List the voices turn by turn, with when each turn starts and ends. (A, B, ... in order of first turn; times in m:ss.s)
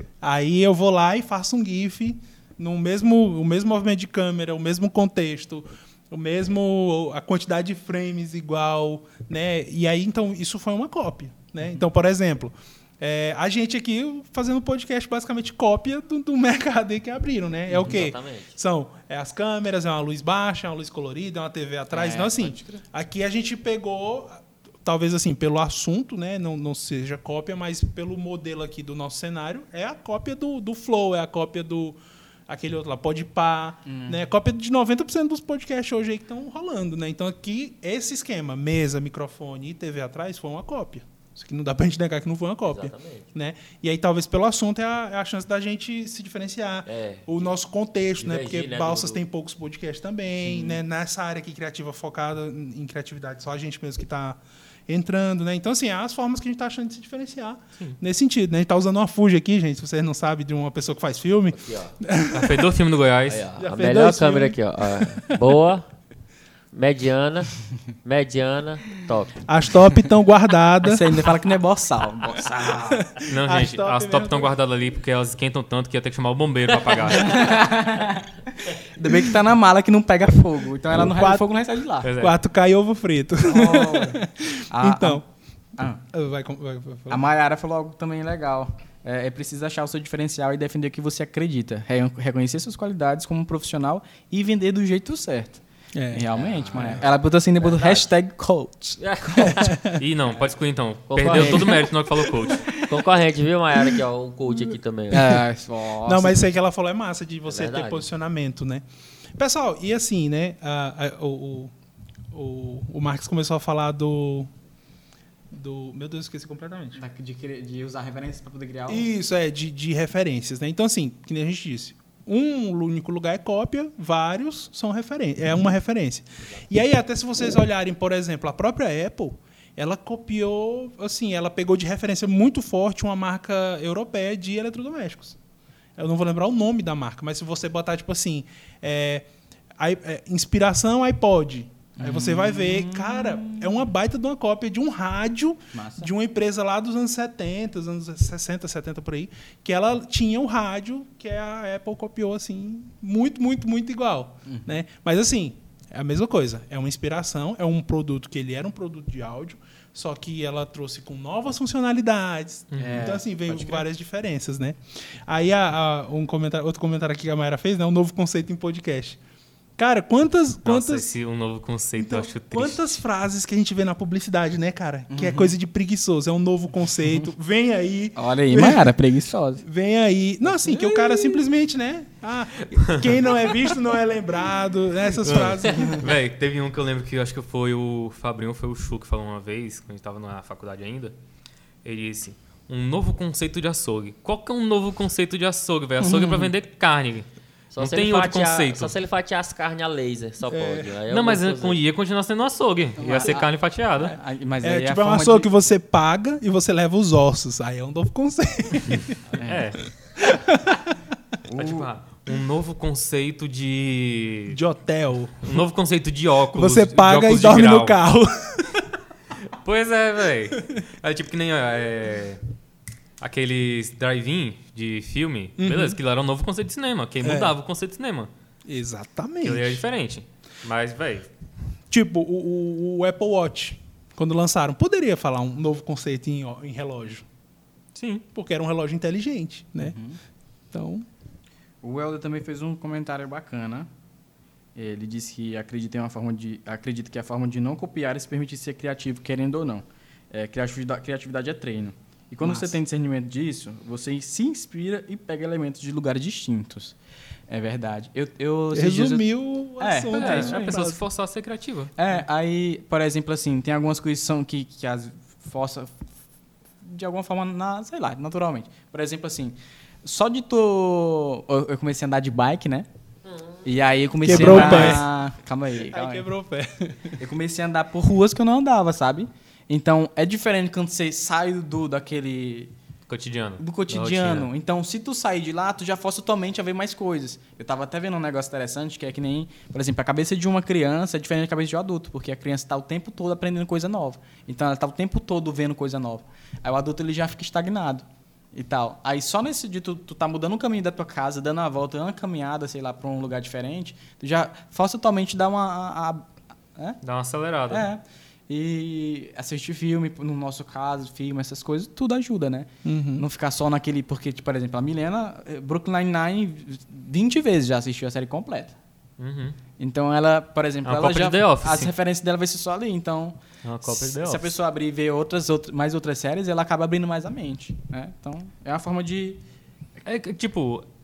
0:00.2-1:02.7 A
0:17.8-0:18.6 B
0:21.9-0:22.8 C
0:33.8-0:34.2 C
0:42.6-0:43.3 B
0:46.8-0:47.5 B
0:48.2-0:49.2 B
1:01.5-1:02.0 B
1:02.3-1:03.5 D
1:03.3-1:05.9 B
1:03.6-1:05.4 A
1:06.7-1:09.4 B
1:09.4-1:11.3 A
1:10.8-1:13.0 C
1:12.8-1:14.6 A
1:13.2-1:17.6 D
1:16.9-1:17.3 B
1:17.2-1:22.1 C
1:20.9-1:21.5 A
1:22.0-1:22.3 D
1:22.2-1:25.2 A
1:23.4-1:25.2 C
1:25.8-1:26.0 C
1:26.1-1:27.2 A
1:27.1-1:39.6 C
1:35.9-1:36.2 A
1:36.3-1:37.0 B
1:37.6-1:38.1 B
1:39.0-1:39.9 B
1:39.4-1:40.0 A
1:39.9-1:42.7 D
1:41.1-1:41.9 B
1:41.3-1:43.1 C
1:42.8-1:45.4 B
1:45.1-1:46.4 C
1:46.0-1:48.8 A
1:47.4-1:48.0 B
1:49.4-1:51.7 A
1:52.3-1:54.5 A
1:55.5-1:57.0 A
1:57.0-1:59.1 C
1:58.9-2:15.4 A
2:16.0-2:19.3 A
2:19.8-2:49.2 A
2:22.0-2:23.8 C
2:25.7-2:26.1 C
2:42.7-2:43.1 D
2:42.8-2:43.8 C
2:49.8-2:51.1 A
2:50.6-2:53.0 D
2:52.0-2:58.9 A
2:55.1-2:55.5 C
2:58.2-2:59.6 C
2:59.6-3:06.1 A
3:00.6-3:01.4 C
3:02.8-3:03.1 D
3:05.2-3:11.1 D
3:11.8-3:18.9 D
3:16.0-3:16.5 C
3:17.7-3:21.8 B
3:20.5-3:20.9 A
3:21.1-3:24.2 D
3:23.0-3:25.5 C
3:24.6-3:29.2 A
3:29.4-3:29.6 C
3:29.4-3:29.8 D
3:30.2-3:31.0 A
3:31.5-3:31.8 C
3:31.5-3:34.6 D
3:34.5-3:35.6 A
3:35.4-3:38.0 D
3:36.5-3:38.9 A
3:39.5-3:42.4 D
3:43.2-3:48.3 D
3:45.6-3:46.0 A
3:47.2-3:47.6 A
3:48.6-3:49.8 A
3:49.4-3:51.3 D
3:51.9-3:57.2 A
3:58.0-3:58.2 D
3:58.3-4:00.0 A
3:59.8-4:00.2 C
4:00.7-4:01.0 A
4:01.8-4:03.9 C
4:04.7-4:17.0 C
4:17.5-4:20.8 C
4:18.7-4:21.0 A
4:20.1-4:21.9 D
4:22.0-4:26.0 C
4:26.8-4:32.9 C
4:33.2-4:33.7 B
4:33.6-4:36.2 C
4:34.2-4:35.1 A
4:34.4-4:34.9 D
4:35.8-4:37.2 A
4:37.2-4:42.7 C
4:43.1-4:44.5 D
4:43.6-5:07.0 C
5:07.0-5:07.8 D
5:07.7-5:18.8 C
5:12.8-5:13.2 A
5:19.2-5:19.6 D
5:19.8-5:29.4 C
5:20.8-5:21.9 D
5:23.6-5:24.5 D
5:30.0-5:30.8 D